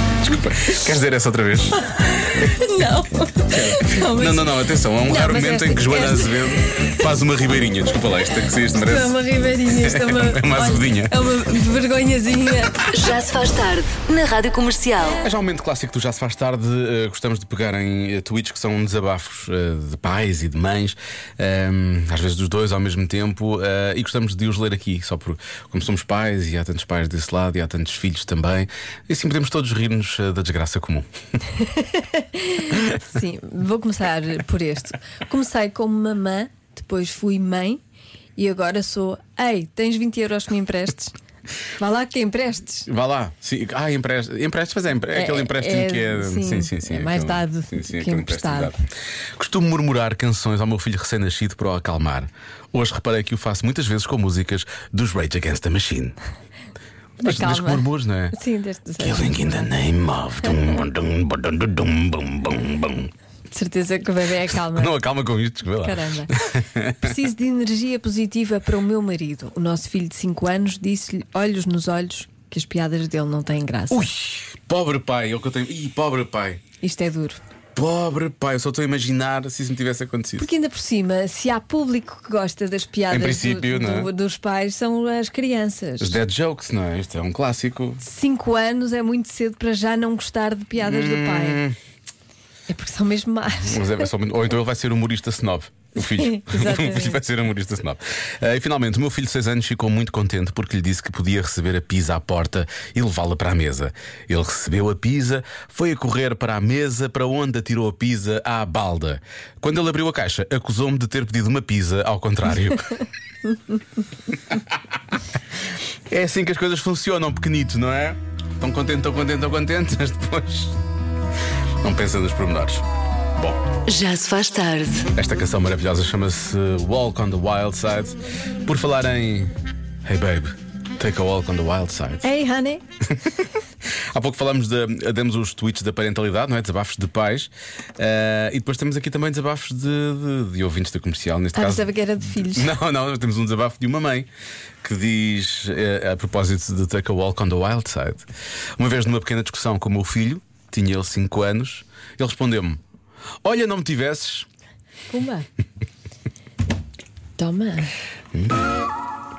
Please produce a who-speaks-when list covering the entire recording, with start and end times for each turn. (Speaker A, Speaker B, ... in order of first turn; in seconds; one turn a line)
Speaker A: 0.2-2.5
Speaker B: 2.4-7.0
Speaker A: 3.5-9.2
Speaker B: 8.7-12.8
Speaker A: 9.7-11.2
Speaker C: 12.9-15.2
Speaker A: 15.2-31.1
Speaker B: 31.7-37.8
Speaker B: 38.4-41.1
Speaker B: 41.8-42.9
Speaker A: 42.8-48.8
Speaker B: 45.1-48.7
Speaker A: 49.4-56.1
Speaker B: 57.2-59.7
Speaker A: 57.2-58.3
Speaker A: 59.0-63.1
Speaker B: 63.5-65.0
Speaker A: 64.5-67.1
Speaker B: 65.8-66.3
Speaker B: 67.0-74.1
Speaker A: 73.9-76.6
Speaker B: 76.8-77.4
Speaker A: 77.7-80.5
Speaker B: 80.4-86.2
Speaker A: 83.1-84.1
Speaker A: 86.0-88.0
Speaker B: 88.0-91.6
Speaker A: 90.8-91.8
Speaker B: 92.7-94.1
Speaker A: 93.5-113.0
Speaker B: 96.0-97.2
Speaker A: 116.1-120.8
Speaker A: 121.8-122.8
Speaker A: 123.4-123.6
Speaker C: 123.9-125.0
Speaker A: 125.2-129.5
Speaker A: 130.0-132.3
Speaker B: 132.2-132.8
Speaker A: 134.1-144.3
Speaker B: 141.5-142.7
Speaker A: 144.8-148.2
Speaker A: 148.8-152.8
Speaker A: 153.4-154.5
Speaker B: 155.1-155.5
Speaker B: 157.4-157.9
Speaker A: 158.3-158.6